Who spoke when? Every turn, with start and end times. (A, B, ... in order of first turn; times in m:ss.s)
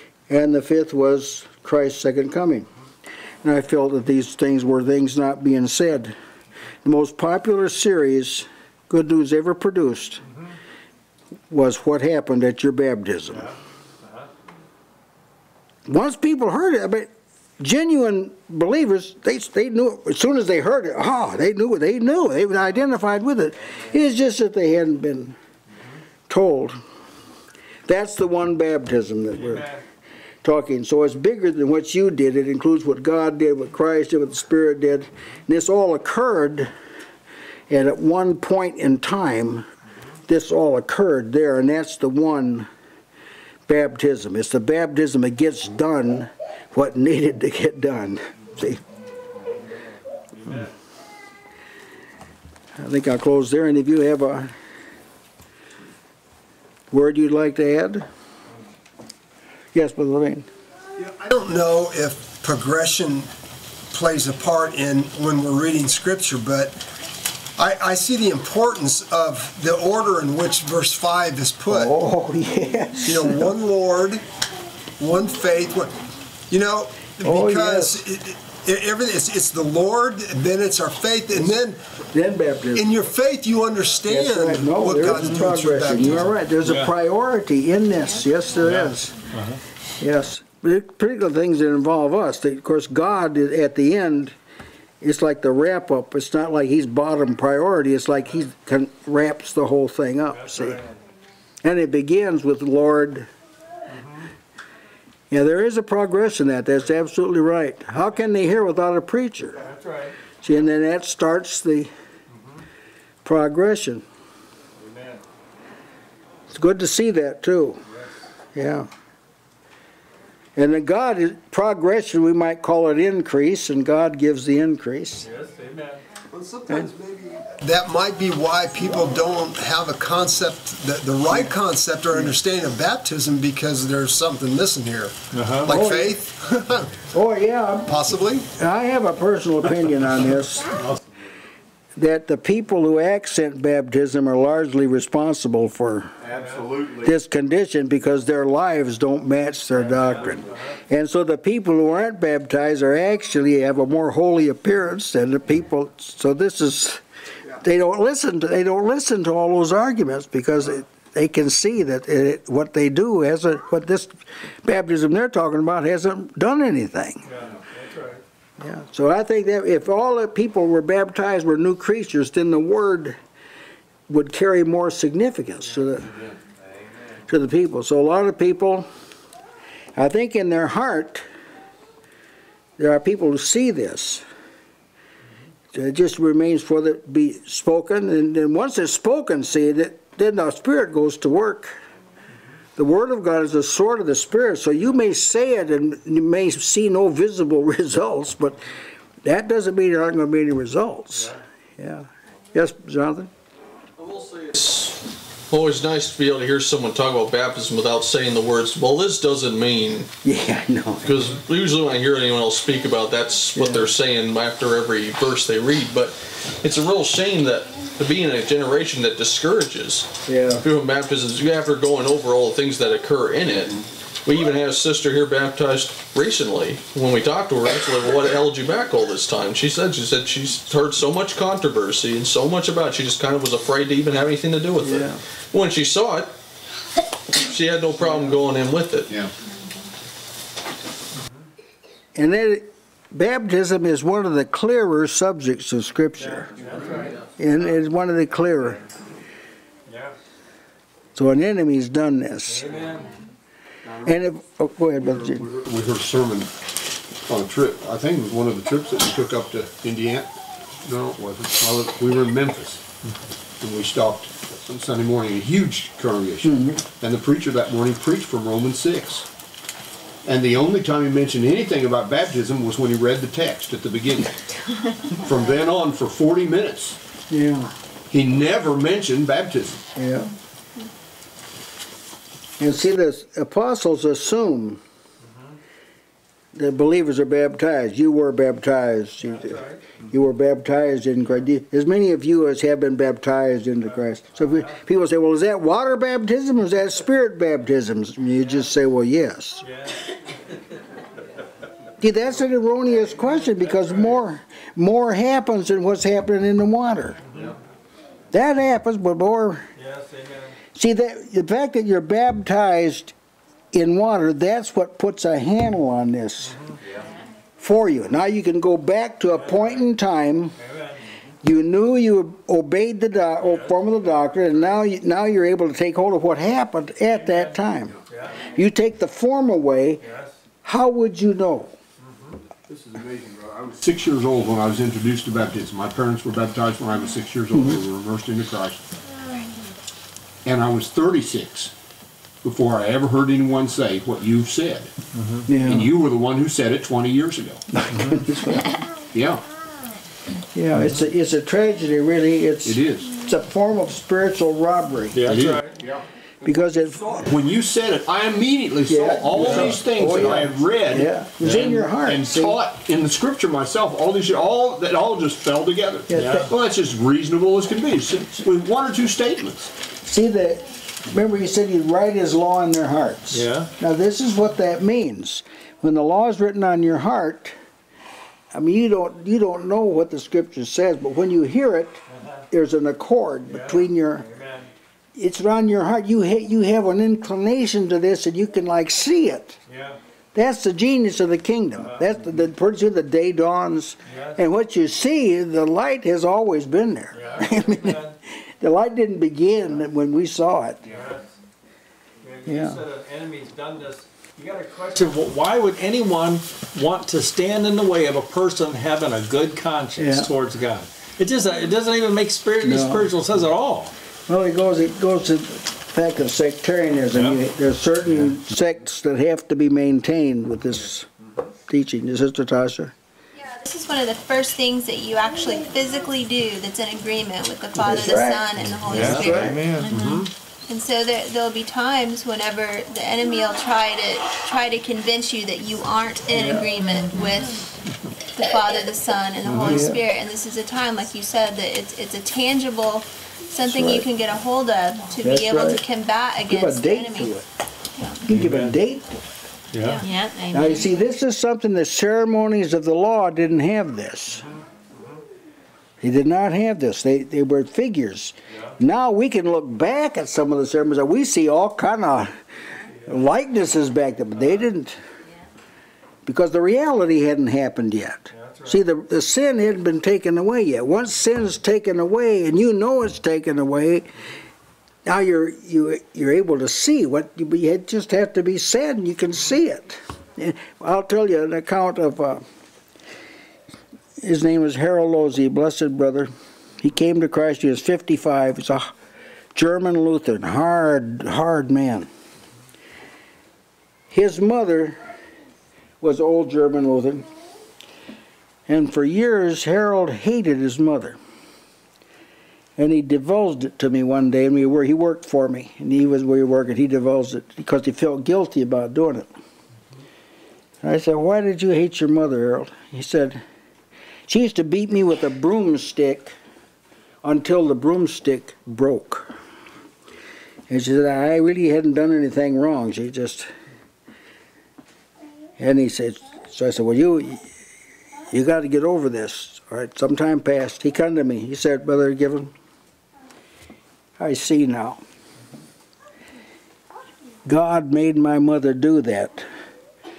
0:00.3-0:02.7 A
0:03.4-0:06.2 A
0:06.8-0:10.2 A
0:11.5-0:13.5 A
0:13.3-0:14.3 B
0:15.9-0:25.4 A
0:26.3-0:26.8 A
0:27.9-0:29.7 A
0:29.4-0:29.8 B
0:30.4-0:36.7 A
0:37.7-0:39.7 A
0:40.3-0:42.7 A
0:43.7-0:48.8 A
0:50.4-0:50.7 B
0:52.8-0:54.5 A
0:56.9-0:58.1 A
0:59.7-1:00.5 A
1:01.0-1:03.3 C
1:03.9-1:06.8 C
1:07.6-1:11.9 C
1:11.7-1:13.5 A
1:13.1-1:14.2 C
1:15.0-1:16.0 C
1:16.5-1:21.8 C
1:17.2-1:18.0 A
1:22.1-1:23.0 A
1:22.8-1:26.4 C
1:24.1-1:29.2 A
1:26.6-1:26.9 B
1:28.6-1:29.6 B
1:30.0-1:34.4 A
1:35.0-1:40.8 A
1:40.4-1:40.8 B
1:41.6-1:43.3 A
1:45.3-1:49.6 A
1:49.6-1:50.2 B
1:50.4-1:51.9 A
1:53.2-1:54.0 A
1:54.8-1:55.2 B
1:56.5-1:57.8 A
1:58.6-1:58.9 A
2:00.6-2:05.2 A
2:05.2-2:06.0 B
2:06.3-2:17.0 C
2:15.3-2:15.7 B
2:15.7-2:16.2 A
2:17.1-2:20.8 A
2:17.9-2:18.5 C
2:22.0-2:26.1 A
2:26.2-2:27.1 D
2:26.4-2:26.7 B
2:27.0-2:37.0 A
2:37.6-2:44.1 A
2:44.6-2:47.2 A
2:47.2-2:48.2 B
2:48.6-2:53.2 A
2:54.1-2:56.1 A
2:57.3-2:58.9 A
3:00.0-3:01.2 A
3:02.8-3:04.2 A
3:05.7-3:11.8 A
3:12.8-3:18.6 A
3:19.2-3:23.3 A
3:24.0-3:25.0 E
3:25.5-3:30.1 E
3:30.2-3:31.1 A
3:31.0-3:56.3 E
3:33.6-3:33.8 A
3:40.3-3:40.6 A
3:54.8-3:55.2 A
3:57.4-3:59.1 E
4:02.2-4:06.5 A
4:06.2-4:07.2 B
4:07.4-4:08.8 A
4:09.9-4:10.2 B
4:11.2-4:12.7 A
4:12.5-4:13.1 B
4:13.8-4:14.2 D
4:14.0-4:15.4 A
4:15.0-4:16.7 D
4:17.2-4:20.3 D
4:20.8-4:22.8 D
4:23.6-4:29.3 D
4:26.4-4:26.8 A
4:30.2-4:34.4 D
4:35.2-4:37.0 D
4:37.3-4:37.7 A
4:38.1-4:39.8 D
4:40.0-4:40.3 A
4:42.6-4:44.8 A
4:46.5-4:59.6 A
4:49.2-4:49.8 B
4:59.6-5:00.0 B
5:02.0-5:07.2 A
5:08.3-5:09.6 A
5:09.8-5:10.6 B
5:10.8-5:13.1 A
5:13.7-5:16.6 A
5:17.6-5:20.6 A
5:19.4-5:19.8 B
5:20.6-5:21.0 B
5:21.4-5:28.0 A
5:23.4-5:24.6 B
5:27.1-5:28.4 B
5:28.5-5:30.0 A
5:30.0-5:30.4 B
5:30.6-5:31.7 A
5:32.0-5:32.4 B
5:32.7-5:38.8 D
5:40.4-5:41.7 D
5:42.4-5:44.9 D
5:45.2-5:45.4 B
5:45.5-5:45.9 A
5:45.6-5:47.6 D
5:47.7-5:48.8 A
5:49.1-5:49.4 D
5:50.5-5:55.3 A
5:52.6-5:53.1 D
5:55.1-5:55.7 B
5:55.3-5:56.5 D
5:56.4-5:57.2 A
5:57.0-6:09.7 D
5:58.9-6:02.6 A
5:59.4-5:59.8 B
6:06.1-6:06.5 A
6:06.1-6:06.5 B
6:10.0-6:17.5 A
6:13.3-6:13.7 B
6:18.5-6:24.2 A
6:22.1-6:22.4 B
6:23.5-6:24.7 B
6:25.2-6:29.6 A
6:29.7-6:30.0 B
6:30.3-6:38.0 A
6:34.1-6:34.4 B
6:37.1-6:38.2 B
6:38.6-6:40.9 A
6:40.9-6:41.3 B
6:42.2-6:53.9 B
6:42.5-6:42.8 A
6:50.0-6:50.3 A
6:52.6-6:53.1 A
6:54.3-7:01.1 A
6:57.1-6:57.4 B
7:01.7-7:02.9 A
7:03.4-7:10.1 F
7:07.8-7:09.6 A
7:08.9-7:10.2 B
7:10.0-7:10.2 D
7:10.7-7:17.7 F
7:16.3-7:16.7 A
7:18.3-7:27.4 F
7:19.6-7:20.0 A
7:23.7-7:24.0 A
7:25.2-7:25.8 A
7:26.5-7:27.4 A
7:28.0-7:28.2 F
7:28.3-7:29.2 A
7:28.3-7:28.7 B
7:29.7-7:30.0 B
7:29.8-7:30.9 F
7:30.5-7:34.4 A
7:36.0-7:42.3 A
7:43.1-7:45.0 A
7:46.3-7:54.1 A
7:48.3-7:48.8 B
7:55.0-8:02.4 A
8:04.2-8:08.9 A
8:09.6-8:12.1 A
8:14.1-8:15.0 A
8:16.0-8:17.3 A
8:18.7-8:21.2 A
8:22.8-8:29.3 A
8:30.8-8:33.4 A
8:34.3-8:36.4 A
8:37.2-8:39.3 A
8:40.7-8:43.5 A
8:45.6-8:47.4 A
8:48.3-8:52.5 A
8:54.2-8:55.0 A
8:57.4-8:59.5 A